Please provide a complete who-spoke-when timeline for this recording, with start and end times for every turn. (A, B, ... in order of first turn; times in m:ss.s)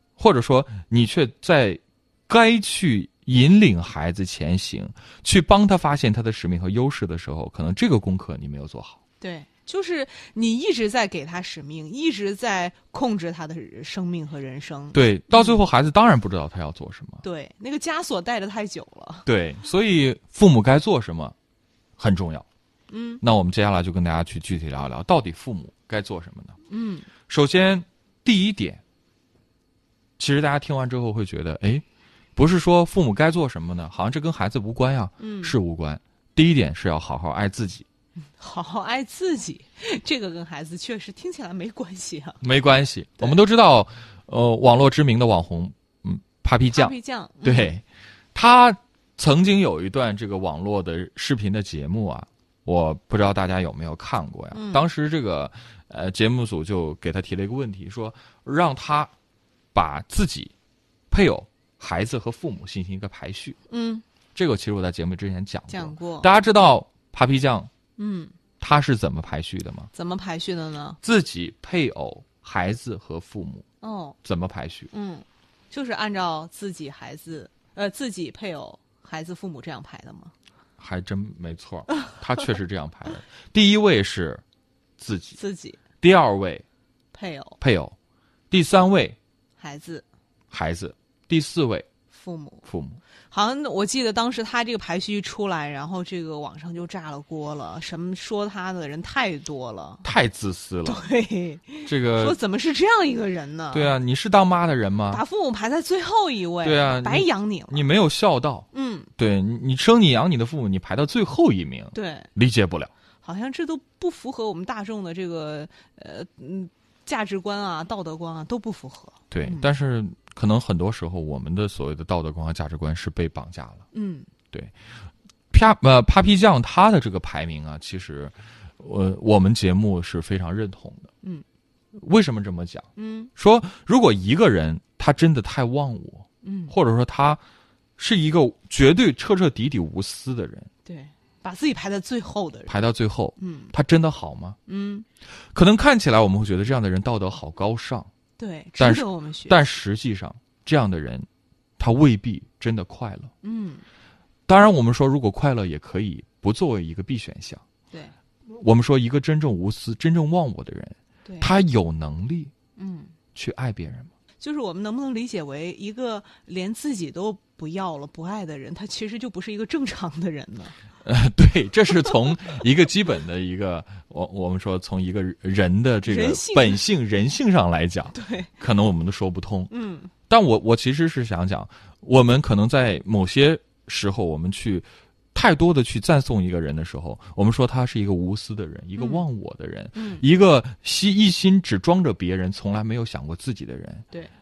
0:00.2-0:09.0 A
0:09.2-0:15.6 B
0:14.9-0:17.2 A
0:17.2-0:19.3 B
0:19.2-0:21.3 A
0:22.0-0:22.4 A
0:22.9-0:23.2 B
0:23.2-0:26.6 A
0:26.7-0:27.1 B
0:27.3-0:28.8 A
0:30.2-0:31.8 A
0:32.4-0:37.8 A
0:35.2-0:35.5 B
0:38.4-0:42.4 B
0:42.4-0:47.8 A
0:46.7-0:47.7 B
0:48.3-0:59.1 A
0:54.5-0:54.9 B
0:59.7-1:00.5 A
1:01.1-1:03.6 A
1:03.7-1:04.0 B
1:04.3-1:07.7 A
1:05.7-1:06.3 B
1:08.0-1:08.3 B
1:08.6-1:09.9 A
1:09.9-1:11.0 B
1:11.0-1:13.6 A
1:13.8-1:14.2 B
1:14.2-1:14.9 A
1:14.9-1:20.3 B
1:20.8-1:24.4 A
1:25.0-1:25.4 A
1:25.4-1:25.8 B
1:26.0-1:26.6 A
1:27.1-1:27.6 B
1:27.6-1:27.9 A
1:28.5-1:29.2 A
1:29.6-1:30.0 B
1:30.5-1:31.9 A
1:32.1-1:32.6 B
1:32.6-1:33.0 A
1:33.3-1:40.0 B
1:40.0-1:41.0 A
1:40.8-1:43.9 B
1:41.8-1:42.4 A
1:43.7-1:45.2 A
1:45.1-1:47.8 B
1:46.6-1:48.6 A
1:48.7-1:49.1 B
1:49.2-1:52.9 A
1:51.9-1:52.3 B
1:53.2-1:59.7 B
1:59.3-2:03.8 A
2:03.9-2:04.3 B
2:05.5-2:11.1 A
2:11.9-2:17.4 A
2:13.0-2:13.3 B
2:16.4-2:16.7 B
2:18.0-2:20.7 A
2:20.8-2:22.8 B
2:22.7-2:24.6 A
2:23.4-2:23.7 B
2:24.7-2:25.0 B
2:25.5-2:28.1 A
2:28.4-2:29.6 B
2:28.8-2:31.3 A
2:31.8-2:33.3 A
2:33.4-2:33.8 B
2:34.5-2:37.6 A
2:38.5-2:42.5 A
2:41.2-2:41.5 B
2:42.8-2:43.1 B
2:43.3-2:44.1 A
2:44.4-2:50.8 B
2:51.0-2:59.7 A
2:56.0-2:56.8 B
2:58.1-2:58.5 B
2:59.7-3:00.1 B
3:00.3-3:14.0 A
3:09.0-3:09.2 B
3:09.9-3:10.2 B